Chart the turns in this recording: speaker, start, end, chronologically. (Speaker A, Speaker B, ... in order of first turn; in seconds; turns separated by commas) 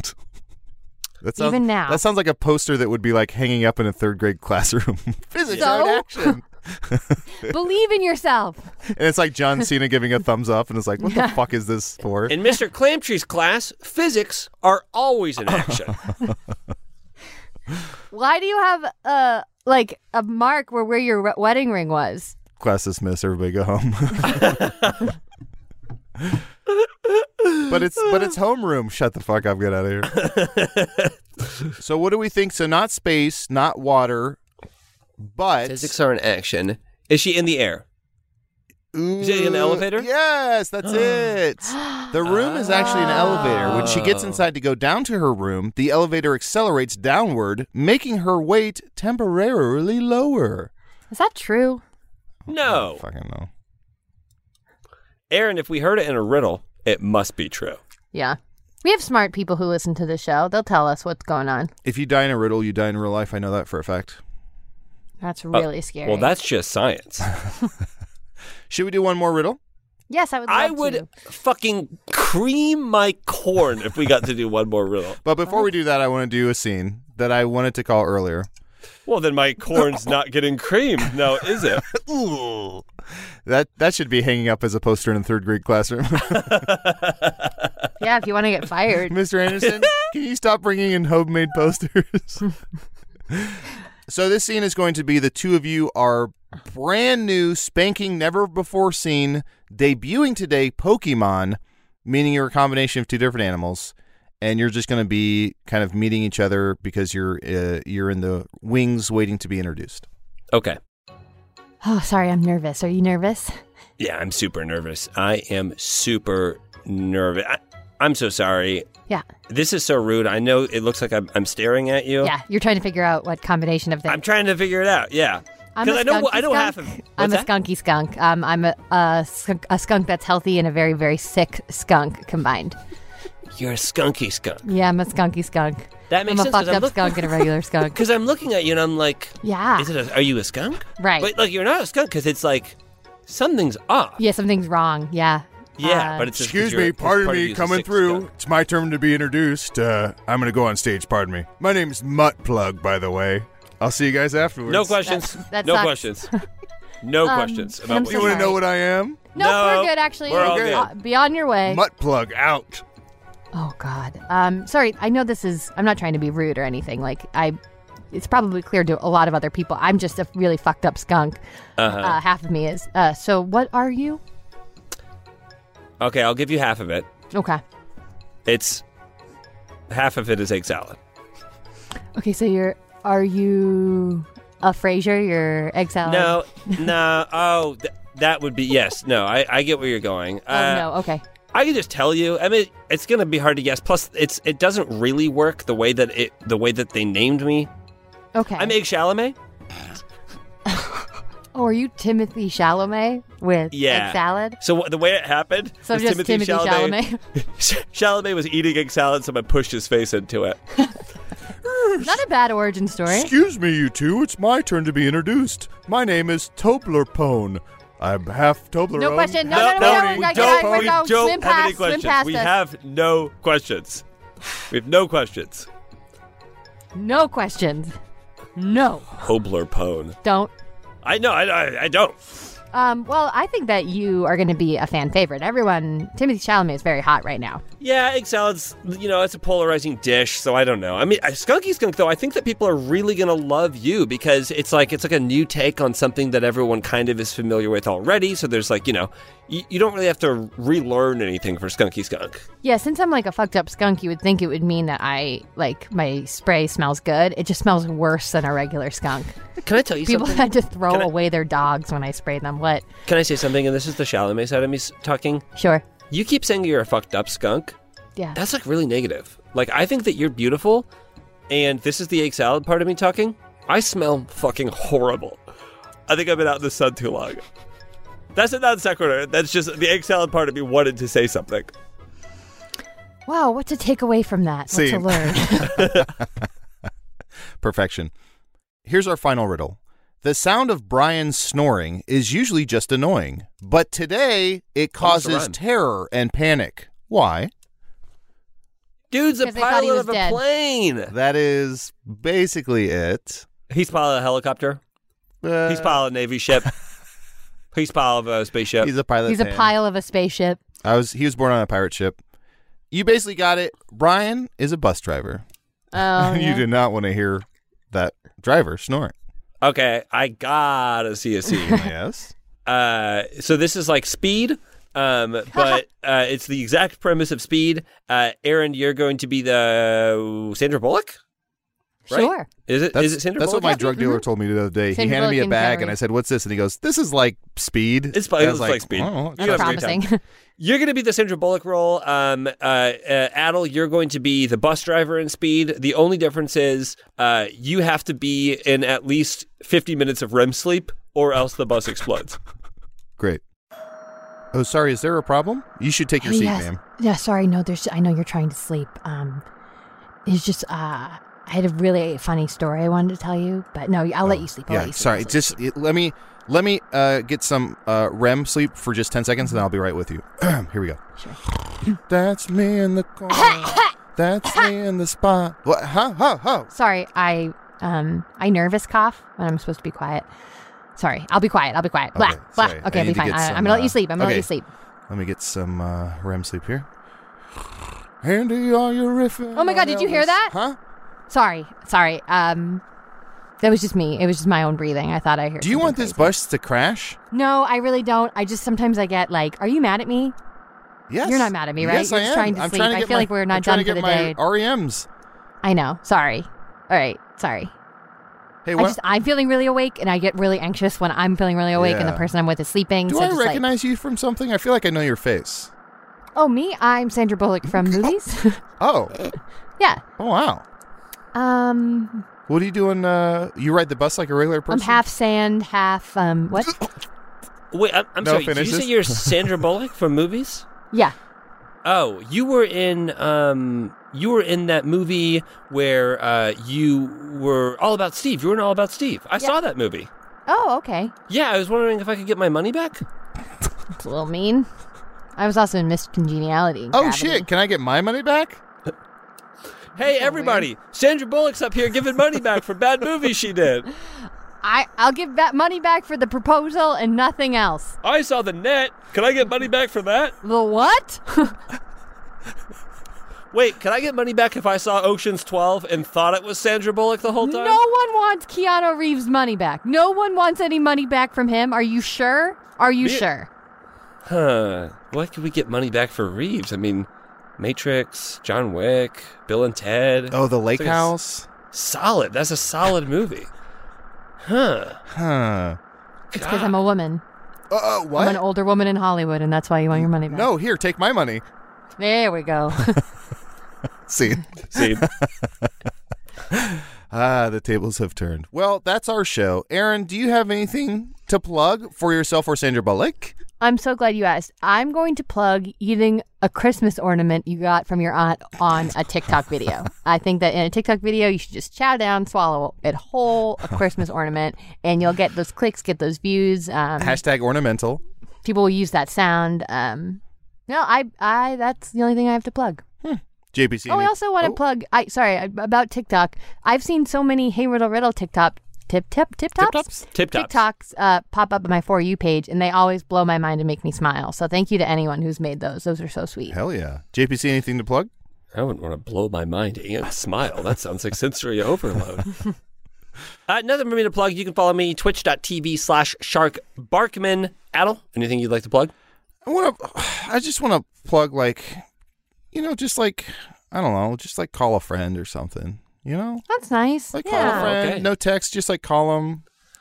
Speaker A: 1.2-7.5, Speaker B: 1.4-2.0, Speaker C: 5.5-5.8, Speaker B: 5.6-6.3, Speaker B: 7.4-8.7, Speaker A: 8.9-12.3, Speaker B: 11.0-11.4, Speaker C: 12.3-16.0, Speaker A: 15.6-16.3, Speaker B: 18.1-22.4, Speaker A: 22.6-24.7, Speaker C: 24.3-25.0, Speaker C: 26.8-28.1, Speaker A: 27.7-30.1, Speaker C: 30.1-31.7, Speaker A: 31.8-34.4, Speaker A: 35.2-35.9, Speaker C: 35.6-37.8, Speaker A: 38.9-50.7, Speaker C: 39.2-40.1, Speaker C: 40.8-41.3, Speaker B: 41.7-42.1, Speaker C: 42.2-44.4, Speaker B: 42.7-43.9, Speaker B: 51.1-51.8, Speaker A: 52.5-53.5, Speaker C: 52.5-53.0, Speaker C: 55.3-57.8, Speaker B: 58.1-61.7, Speaker A: 61.8-64.2, Speaker B: 65.2-66.3, Speaker C: 65.5-67.3, Speaker A: 68.7-69.6, Speaker B: 70.1-71.1, Speaker C: 70.5-75.2, Speaker A: 75.2-78.5, Speaker C: 79.1-81.9, Speaker A: 81.9-82.8, Speaker A: 83.4-86.7, Speaker C: 86.3-87.7, Speaker B: 88.0-89.2, Speaker A: 89.1-92.4, Speaker A: 93.3-110.0, Speaker C: 110.5-110.8, Speaker B: 111.8-113.6, Speaker C: 114.0-118.8, Speaker C: 119.5-122.3, Speaker B: 122.2-124.2, Speaker C: 124.1-127.5, Speaker B: 125.8-132.8, Speaker C: 133.6-134.6, Speaker B: 134.6-138.0, Speaker C: 136.1-142.8, Speaker B: 139.4-139.9, Speaker B: 141.0-141.3, Speaker C: 143.3-144.2, Speaker B: 144.2-146.3, Speaker C: 145.8-148.3, Speaker A: 146.3-155.1, Speaker C: 154.7-156.3, Speaker B: 155.1-156.4, Speaker C: 157.0-158.5, Speaker B: 157.2-158.6, Speaker A: 158.0-159.2, Speaker B: 159.3-161.8, Speaker C: 159.3-160.9, Speaker A: 160.3-160.9, Speaker A: 161.7-162.8, Speaker B: 163.5-167.6, Speaker B: 168.1-174.2, Speaker C: 171.8-172.2, Speaker C: 176.0-177.1, Speaker B: 177.3-177.6, Speaker C: 178.4-178.8, Speaker C: 179.9-181.0, Speaker B: 182.2-186.8, Speaker C: 186.0-190.9, Speaker B: 190.5-191.2, Speaker C: 191.5-197.7, Speaker B: 198.3-198.8, Speaker C: 198.6-199.3, Speaker B: 201.5-204.6, Speaker C: 203.7-210.6, Speaker B: 205.8-207.2, Speaker A: 211.6-212.2, Speaker B: 212.0-213.3, Speaker A: 213.1-221.0, Speaker B: 218.9-222.5, Speaker C: 219.5-224.0, Speaker C: 224.7-225.7, Speaker B: 226.9-227.9, Speaker B: 228.6-229.1, Speaker C: 229.2-230.2, Speaker B: 230.2-230.5, Speaker C: 231.0-232.2, Speaker B: 232.7-237.6, Speaker C: 237.8-252.4, Speaker B: 252.6-259.3, Speaker C: 259.6-261.1, Speaker B: 260.0-262.8, Speaker C: 263.1-265.4, Speaker B: 265.6-265.8, Speaker C: 266.1-267.7, Speaker C: 268.3-270.9, Speaker C: 271.5-275.4, Speaker C: 276.1-277.4, Speaker C: 278.3-281.7, Speaker B: 283.3-285.9, Speaker A: 284.7-286.2, Speaker C: 285.8-286.0, Speaker A: 287.6-288.1, Speaker A: 288.8-297.5, Speaker C: 295.0-295.6, Speaker C: 299.1-301.1, Speaker B: 299.4-300.4, Speaker A: 301.1-303.4, Speaker C: 303.7-304.8, Speaker A: 305.4-306.0, Speaker C: 305.6-306.7, Speaker C: 307.7-308.9, Speaker A: 308.8-309.7, Speaker B: 309.2-310.6, Speaker A: 310.8-312.2, Speaker A: 312.9-315.4, Speaker B: 315.9-316.6, Speaker A: 316.1-319.1, Speaker C: 319.6-321.8, Speaker A: 321.6-322.3, Speaker C: 322.6-331.2, Speaker B: 325.5-325.8, Speaker B: 332.1-332.5, Speaker C: 332.1-333.8, Speaker A: 332.9-339.9, Speaker B: 333.6-334.2, Speaker B: 334.9-335.9, Speaker C: 338.1-340.0, Speaker B: 339.4-340.2, Speaker C: 340.6-352.4, Speaker A: 353.2-353.4, Speaker A: 354.5-356.8, Speaker B: 356.2-359.4, Speaker B: 360.2-365.6, Speaker A: 364.2-371.0, Speaker A: 371.9-376.7, Speaker B: 373.3-373.9, Speaker B: 376.7-380.2, Speaker B: 381.0-384.7, Speaker A: 382.1-384.5, Speaker A: 385.1-386.9, Speaker A: 388.2-390.8, Speaker B: 389.5-390.5, Speaker B: 391.3-392.8, Speaker B: 393.6-396.3, Speaker A: 395.6-397.2, Speaker B: 397.3-400.3, Speaker A: 401.1-405.1, Speaker B: 401.2-404.4, Speaker B: 405.6-407.7, Speaker A: 408.6-409.0, Speaker B: 408.8-413.6, Speaker A: 411.7-412.3, Speaker A: 413.1-415.7, Speaker B: 416.3-418.6, Speaker A: 418.8-419.1, Speaker A: 420.2-420.6, Speaker B: 421.3-422.2, Speaker A: 422.5-425.0, Speaker B: 424.7-426.7, Speaker C: 427.7-430.6, Speaker A: 428.2-429.4, Speaker C: 431.8-440.1, Speaker B: 440.5-441.1, Speaker C: 441.3-443.0, Speaker B: 444.0-444.7, Speaker B: 445.4-447.5, Speaker A: 446.9-448.6, Speaker C: 449.9-453.9, Speaker B: 450.0-450.7, Speaker B: 454.6-458.0, Speaker C: 458.0-460.4, Speaker B: 460.4-461.5, Speaker C: 463.5-467.8, Speaker B: 467.4-473.5, Speaker C: 474.3-477.1, Speaker C: 477.6-481.1, Speaker A: 480.3-481.5, Speaker C: 481.7-483.5, Speaker C: 484.4-485.0, Speaker A: 485.1-485.8, Speaker C: 486.3-486.7, Speaker B: 486.4-487.2, Speaker A: 487.7-488.4, Speaker B: 488.1-490.5, Speaker A: 489.9-491.4, Speaker B: 492.0-493.0, Speaker A: 494.1-495.7, Speaker C: 494.7-495.1, Speaker A: 496.5-503.3, Speaker B: 503.6-517.2, Speaker A: 517.0-518.0, Speaker B: 518.4-522.8, Speaker A: 523.0-524.6, Speaker B: 523.9-536.5, Speaker A: 529.6-529.9, Speaker C: 530.0-530.6, Speaker A: 536.5-538.1, Speaker C: 538.5-542.4, Speaker C: 543.5-548.9, Speaker A: 549.4-551.8, Speaker A: 552.5-556.4, Speaker B: 556.5-557.7, Speaker A: 557.1-559.4, Speaker C: 557.3-558.1